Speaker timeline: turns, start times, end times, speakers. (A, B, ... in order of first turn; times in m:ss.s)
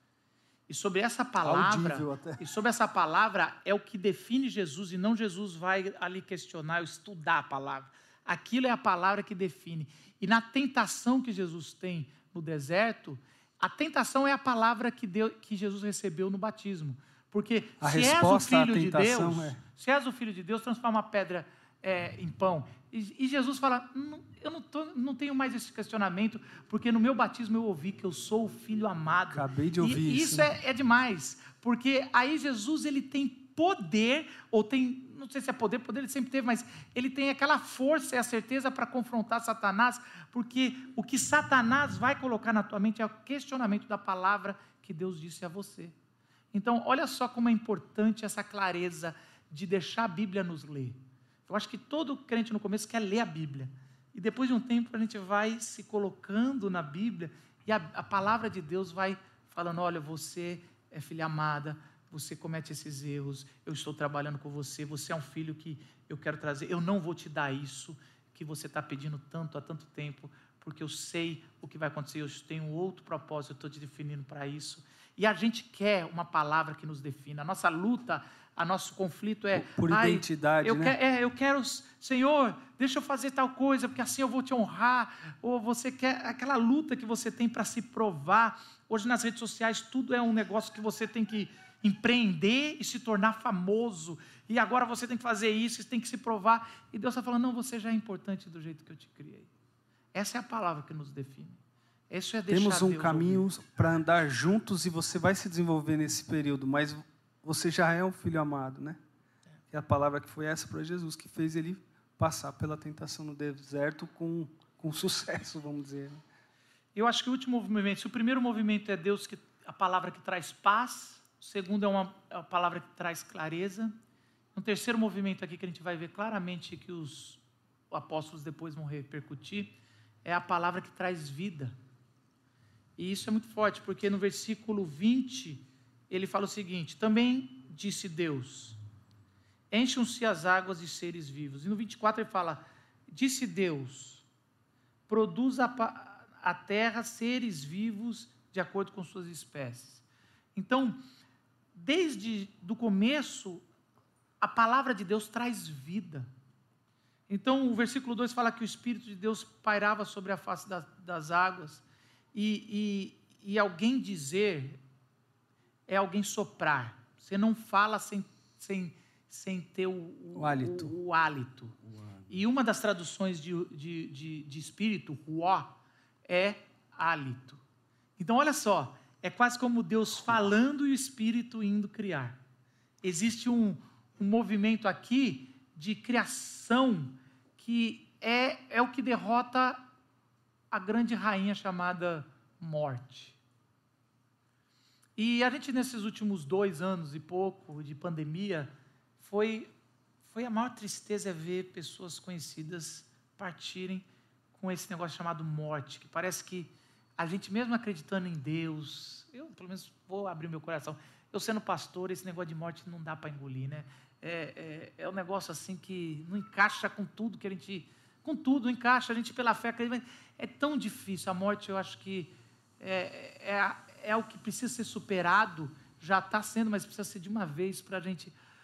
0:00.7-0:45.9 A
0:01.4-0:02.4 B
0:17.8-0:19.6 B
0:29.3-0:30.5 B
0:46.5-1:39.5 A
1:19.5-1:21.0 B
1:40.1-1:43.4 A
1:42.5-1:49.0 B
1:49.7-1:56.2 B
1:56.9-2:03.9 A
2:04.5-2:09.7 A
2:10.2-2:11.7 A
2:13.0-2:18.8 A
2:19.7-2:24.2 A
2:25.1-2:30.0 A
2:30.5-2:31.0 A
2:31.7-2:33.6 A
2:34.4-2:36.3 A
2:37.3-2:41.8 A
2:42.3-2:44.8 A
2:45.9-2:51.8 A
2:50.4-2:50.9 B
2:52.3-2:57.6 A
2:58.2-3:02.4 A
3:03.0-3:09.8 A
3:10.7-3:13.4 A
3:15.2-3:19.7 A
3:20.2-3:48.3 A